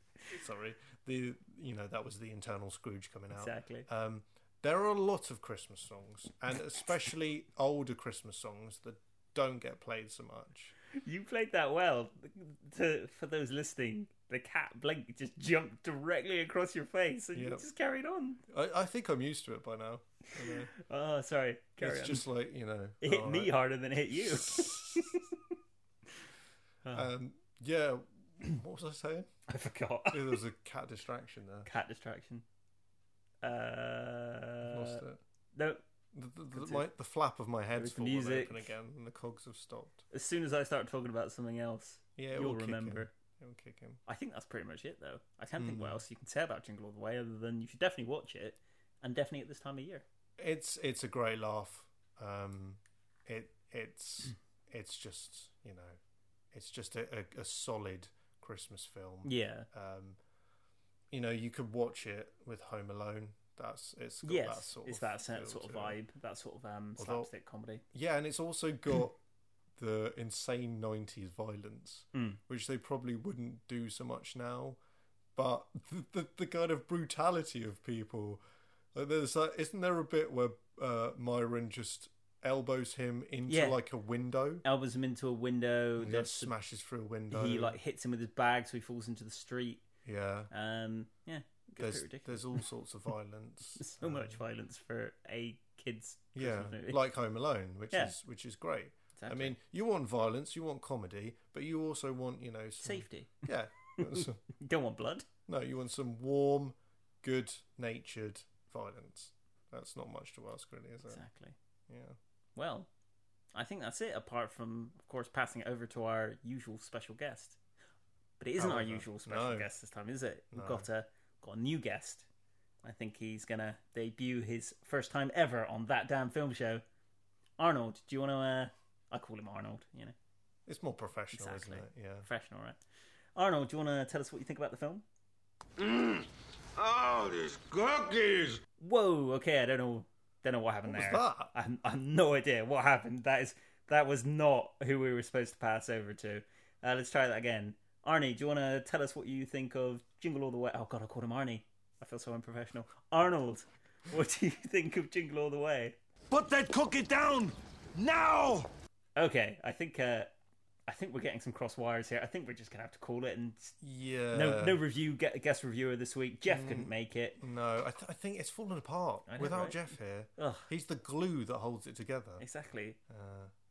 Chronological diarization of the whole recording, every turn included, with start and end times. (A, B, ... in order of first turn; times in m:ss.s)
0:00.3-0:10.7 A
0:03.3-0:03.9 B
0:10.9-0:18.4 B
0:17.3-0:17.6 A
0:18.5-0:20.7 A
0:20.4-0:22.3 B
0:21.8-0:23.6 A
0:23.0-0:25.4 B
0:24.3-0:25.0 A
0:26.9-0:29.3 A
0:29.5-0:30.4 B
0:30.1-0:31.7 A
0:31.6-0:32.4 B
0:33.4-0:35.0 B
0:34.7-0:35.2 A
0:35.6-0:35.8 B
0:36.1-0:40.0 A
0:36.5-0:36.8 B
0:37.8-0:38.7 B
0:40.1-0:43.1 B
0:42.2-0:44.0 A
0:44.1-0:50.0 B
0:45.6-0:46.0 A
0:50.4-0:56.0 A
0:56.5-1:00.2 A
0:59.2-0:59.7 B
1:01.1-1:06.0 A
1:04.2-1:07.8 B
1:07.0-1:07.3 A
1:07.9-1:09.2 A
1:09.8-1:14.8 A
1:12.1-1:12.4 B
1:15.4-1:18.4 A
1:18.9-1:24.6 A
1:23.5-1:23.8 B
1:24.6-1:26.5 B
1:26.0-1:27.8 A
1:27.3-1:29.8 B
1:30.0-1:30.5 A
1:30.5-1:32.6 B
1:31.8-1:34.4 A
1:33.8-1:37.0 B
1:36.4-1:44.4 A
1:39.2-1:39.6 B
1:42.8-1:45.3 B
1:45.5-1:51.2 A
1:51.1-1:51.6 B
1:51.9-1:52.2 A
1:52.6-1:52.9 B
1:53.6-1:57.6 B
1:58.4-2:02.3 B
1:58.6-1:59.7 A
2:00.5-2:00.9 A
2:02.8-2:06.8 B
2:07.6-2:10.2 B
2:10.7-2:12.3 A
2:11.3-2:12.8 B
2:13.4-2:15.0 B
2:15.8-2:18.6 C
2:18.8-2:36.0 B
2:20.9-2:21.5 A
2:36.3-2:38.7 C
2:39.2-2:40.3 B
2:40.9-2:43.7 B
2:43.8-2:44.8 A
2:44.3-2:47.4 B
2:46.5-2:52.4 A
2:49.3-2:49.8 B
2:50.4-2:50.7 B
2:52.4-2:53.0 B
2:53.1-2:53.5 A